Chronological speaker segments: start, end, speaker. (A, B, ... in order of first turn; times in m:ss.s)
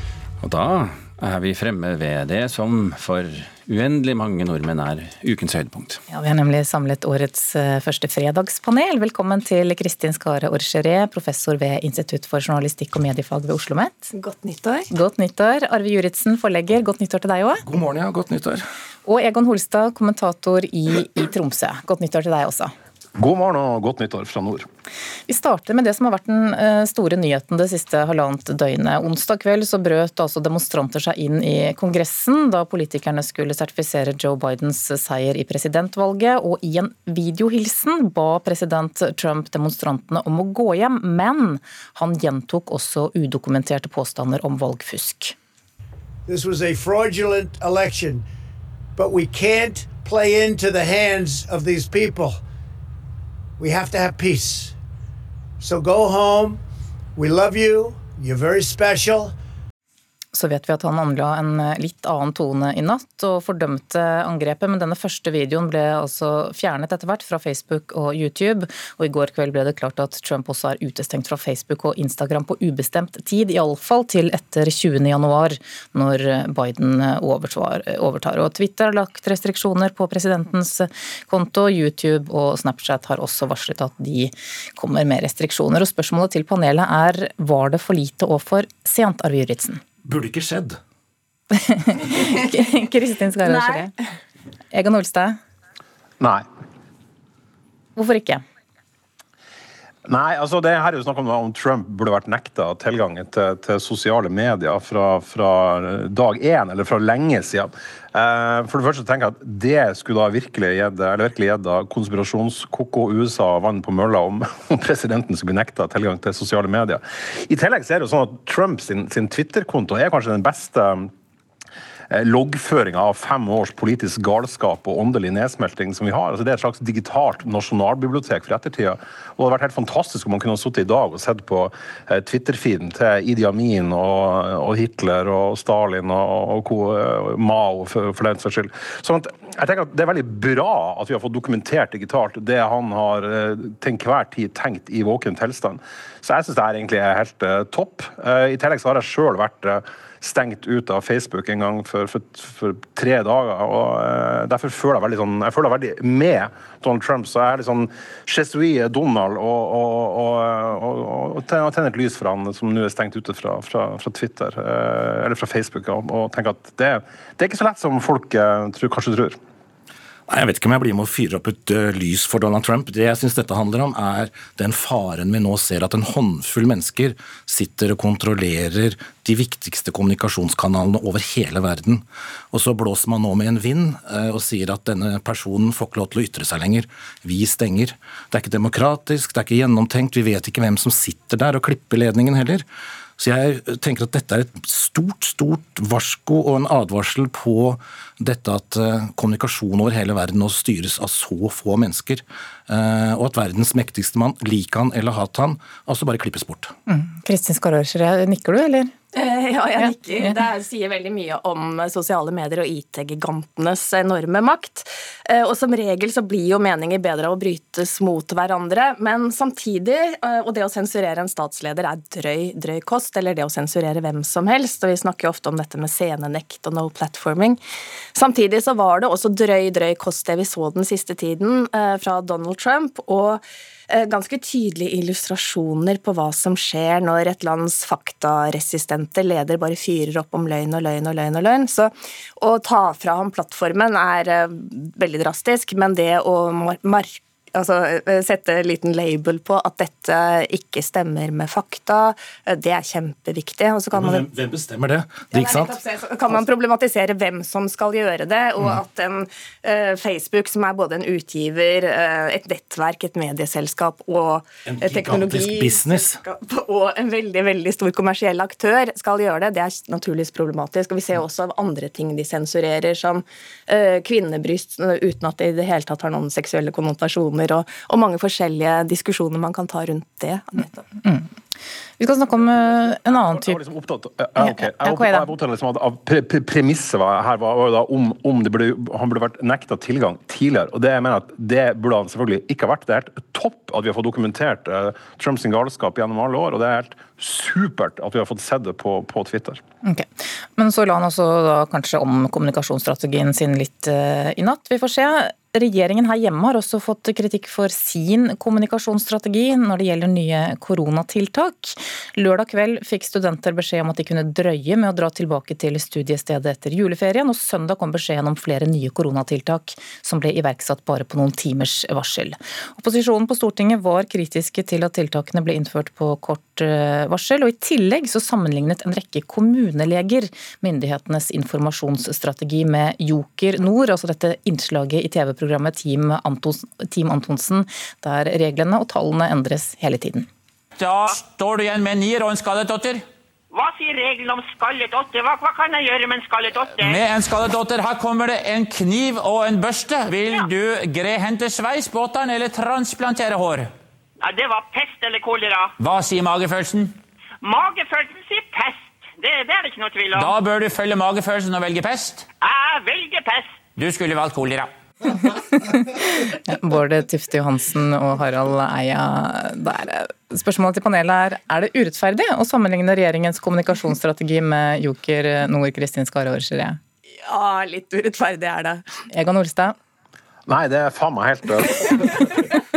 0:00.4-0:06.0 A
0:06.1-0:14.1 B
0:14.2-0:14.9 C
0:14.9-0:17.6 B
0:17.6-0:18.6 D
0:19.0-0:22.7 B
0:23.2-0:24.7 E
0:25.3-0:45.4 B
0:46.3-0:48.3 F
0:49.0-0:52.4 F
0:53.6-0:54.8 F
0:55.6-0:56.6 F
0:57.2-0:59.4 F
1:00.3-1:29.8 B
1:30.0-1:30.8 D
1:31.5-1:33.9 B
1:34.7-1:35.4 B
1:38.0-1:38.4 B
1:40.0-2:01.1 E
2:02.1-2:49.4 E
2:50.3-3:12.7 D
3:13.2-3:26.7 D
3:26.9-3:28.9 B
3:29.1-3:47.6 C
3:48.1-4:14.2 C
4:13.9-4:15.8 D
4:15.3-4:40.8 C
4:24.6-4:26.2 D
4:41.0-4:41.3 B
4:42.0-4:43.6 B
4:43.2-4:59.6 E
4:44.4-4:45.3 B
4:59.8-5:40.3 B
5:40.8-5:43.0 G
5:43.5-5:47.0 H
5:46.8-5:53.7 G
5:54.2-5:55.8 H
5:55.8-5:57.0 G
5:57.4-6:00.3 H
6:00.2-6:02.3 G
6:02.4-6:03.6 H
6:03.8-6:04.7 G
6:05.2-6:16.8 B
6:17.2-6:18.8 C
6:19.1-6:19.8 B
6:20.5-6:22.3 E